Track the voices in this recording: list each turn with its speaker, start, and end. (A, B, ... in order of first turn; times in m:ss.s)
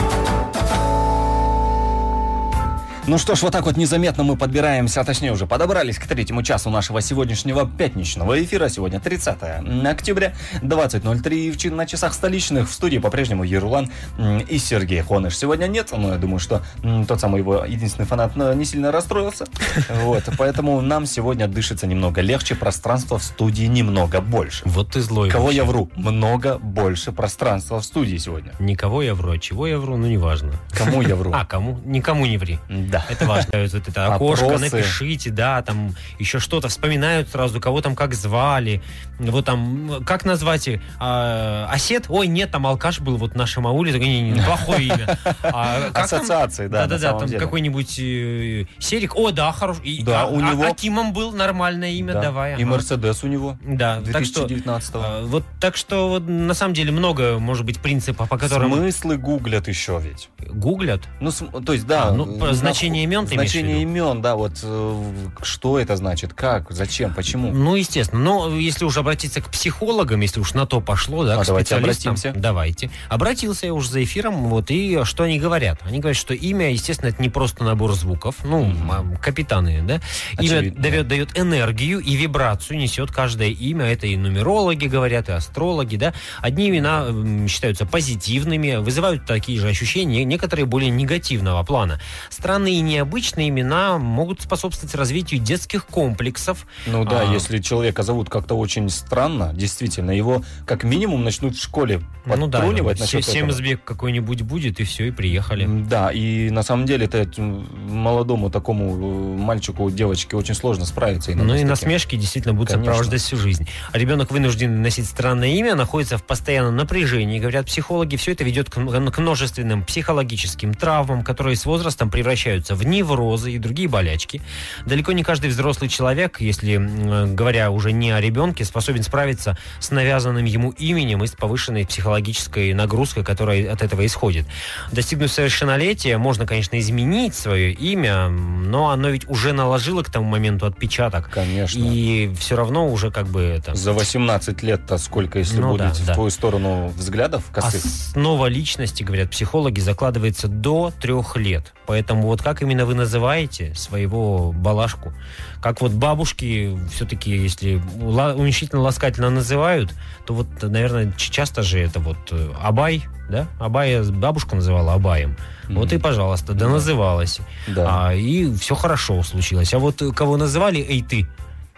0:03.0-0:24.7 A
0:24.7-0:25.7 B
0:25.3-0:28.6 A
0:28.6-0:52.9 B
0:30.7-0:31.4 A
0:32.7-0:33.5 A
0:34.1-0:35.0 A
0:44.3-0:47.6 A
0:50.0-0:50.8 A
0:52.0-0:55.2 A
0:53.6-0:58.8 B
0:58.4-1:00.3 A
1:00.4-1:01.1 B
1:01.2-1:07.6 A
1:02.0-1:03.9 B
1:07.4-1:37.5 B
1:11.3-1:12.4 A
1:18.6-1:19.0 A
1:20.4-1:21.0 A
1:36.9-1:43.6 A
1:42.3-1:45.7 B
1:45.6-1:52.0 A
1:51.4-2:23.8 B
1:52.6-1:53.2 A
2:21.3-2:22.0 A
2:23.7-2:27.9 A
2:25.5-2:26.2 B
2:27.6-2:51.3 B
2:45.7-2:46.0 A
2:46.6-2:46.9 A
2:47.7-2:48.0 A